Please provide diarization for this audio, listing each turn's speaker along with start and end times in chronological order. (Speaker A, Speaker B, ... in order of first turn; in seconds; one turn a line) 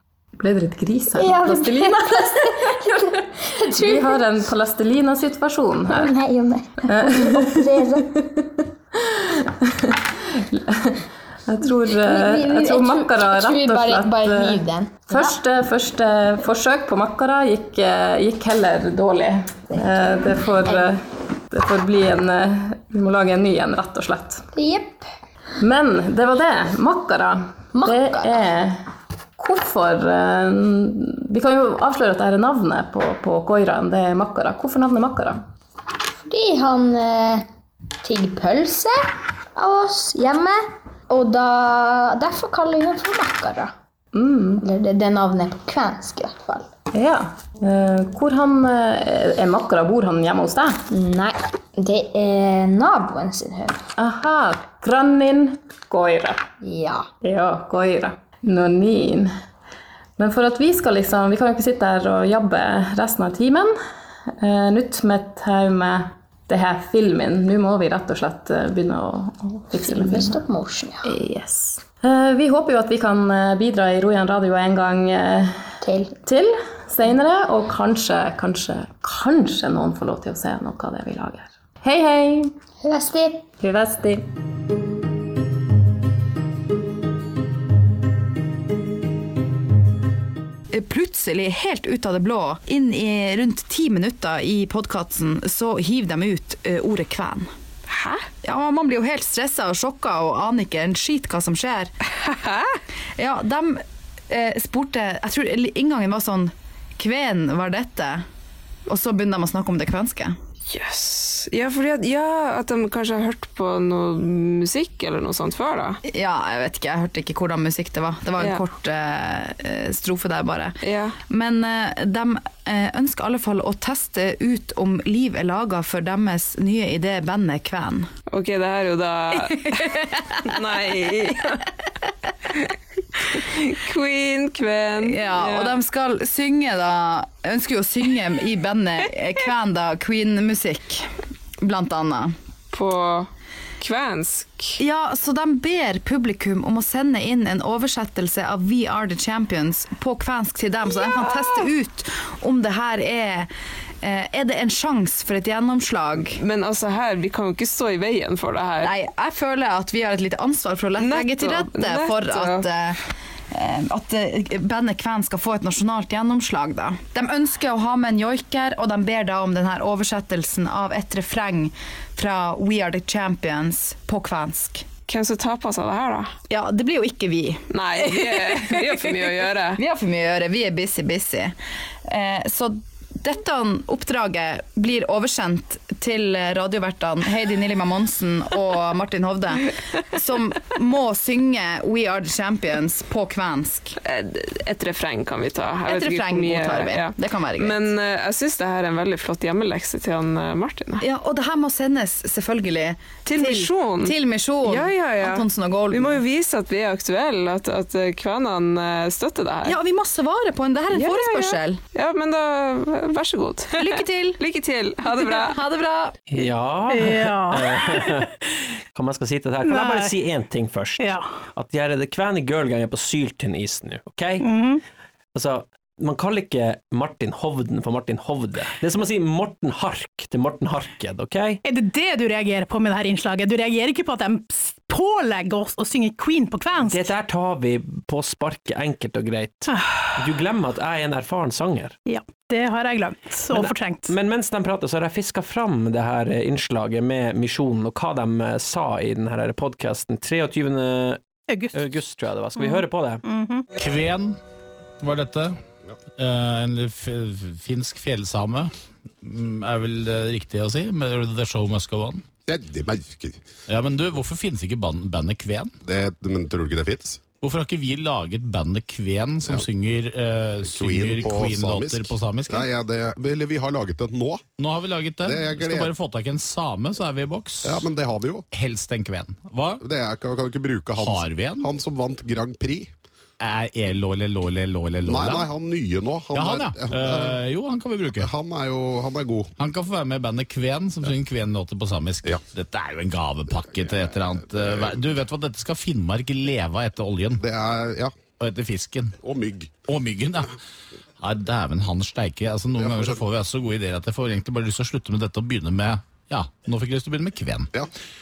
Speaker A: 0.4-6.1
Speaker B: 1.2-4.4
Speaker B: 5.9-8.1
Speaker A: 6.9-24.5
Speaker B: 11.9-15.4
Speaker B: 19.7-20.9
Speaker B: 24.6-25.1
Speaker A: 25.6-28.9
Speaker B: 27.7-28.5
Speaker A: 29.4-35.5
Speaker B: 36.3-37.5
Speaker B: 38.0-39.0
Speaker B: 39.6-43.7
Speaker A: 44.1-44.6
Speaker B: 44.6-46.7
Speaker A: 46.9-50.8
Speaker B: 50.9-53.8
Speaker A: 54.0-56.4
Speaker B: 56.6-57.0
Speaker A: 57.2-59.3
Speaker A: 60.2-63.8
Speaker A: 64.3-70.4
Speaker B: 69.8-71.1
Speaker A: 71.0-75.7
Speaker B: 75.8-76.1
Speaker A: 76.2-82.5
Speaker B: 82.8-83.4
Speaker A: 83.6-84.3
Speaker C: 90.7-97.5
Speaker D: 97.9-98.3
Speaker C: 98.4-101.9
Speaker D: 102.1-102.8
Speaker C: 103.2-108.3
Speaker C: 108.9-110.4
Speaker D: 110.7-116.0
Speaker C: 116.0-120.8
Speaker D: 118.4-118.6
Speaker D: 120.8-121.2
Speaker C: 121.3-128.1
Speaker D: 128.3-131.6
Speaker D: 132.5-135.8
Speaker C: 135.0-142.3
Speaker D: 142.7-144.8
Speaker C: 144.8-153.5
Speaker D: 151.0-151.7
Speaker C: 154.0-156.4
Speaker D: 156.4-158.9
Speaker C: 158.8-163.0
Speaker D: 161.0-162.7
Speaker C: 163.5-174.9
Speaker D: 175.1-176.3
Speaker C: 176.5-179.2
Speaker D: 177.7-179.8
Speaker C: 179.8-193.9
Speaker D: 194.0-201.0
Speaker C: 195.9-197.9
Speaker C: 201.0-206.2
Speaker D: 203.2-209.8
Speaker C: 209.7-211.8
Speaker D: 210.9-215.6
Speaker C: 213.7-214.4
Speaker C: 215.3-216.2
Speaker E: 216.3-218.3
Speaker F: 216.9-218.2
Speaker E: 218.9-224.5
Speaker F: 219.6-220.2
Speaker F: 221.0-221.4
Speaker F: 224.4-224.8
Speaker E: 225.3-231.6
Speaker F: 231.6-237.1
Speaker E: 236.8-242.0
Speaker F: 239.7-240.2
Speaker F: 242.1-244.1
Speaker E: 243.5-251.2
Speaker F: 251.5-251.8
Speaker E: 251.7-253.2
Speaker F: 252.6-253.7
Speaker G: 253.8-254.4
Speaker G: 255.0-255.6
Speaker G: 256.2-262.3
Speaker H: 262.5-263.5
Speaker G: 263.7-265.7
Speaker H: 265.8-267.2
Speaker G: 267.4-272.7
Speaker H: 270.6-274.5
Speaker G: 274.6-277.9
Speaker H: 275.2-275.9
Speaker H: 277.6-278.5
Speaker G: 278.5-279.8
Speaker H: 279.8-282.9
Speaker G: 281.0-281.7
Speaker G: 283.4-285.5
Speaker H: 285.1-287.4
Speaker G: 286.3-288.3
Speaker H: 288.2-289.5
Speaker G: 289.6-297.4
Speaker H: 293.6-295.2
Speaker H: 297.4-298.1
Speaker G: 298.4-299.2
Speaker H: 299.2-299.7
Speaker G: 299.9-300.5
Speaker G: 301.2-307.7
Speaker H: 302.8-303.2